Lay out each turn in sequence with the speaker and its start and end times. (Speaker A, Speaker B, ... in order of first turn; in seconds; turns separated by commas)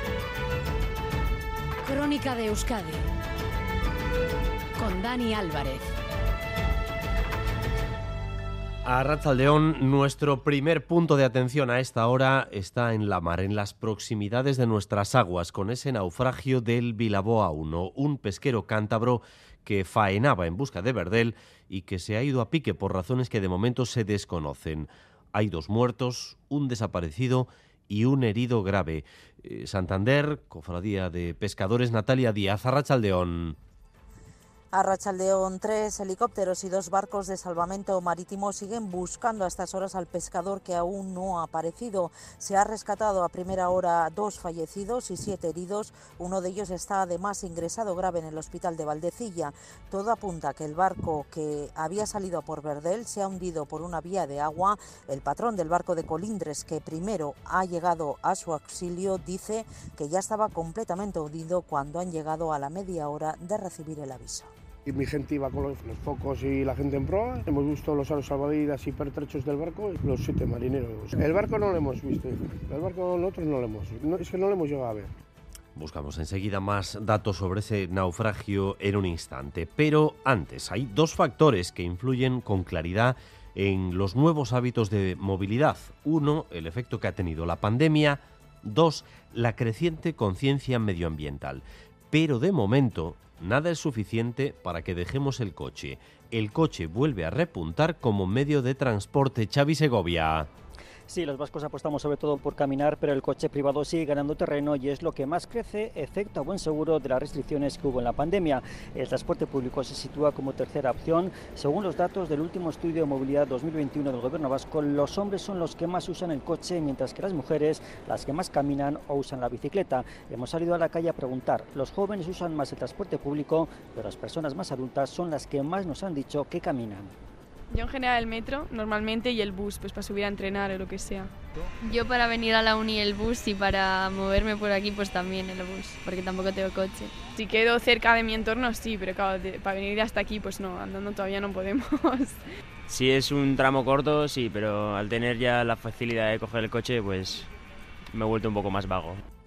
Speaker A: 1.9-3.0, Speaker A: 4.8-5.8, Speaker B: 8.8-33.6, Speaker C: 34.7-64.5, Speaker D: 64.8-75.1, Speaker B: 75.7-100.5, Speaker E: 101.1-127.1, Speaker F: 127.7-131.3, Speaker G: 131.8-137.3, Speaker F: 137.2-142.4, Speaker H: 142.9-147.4, Speaker H: 148.1-149.1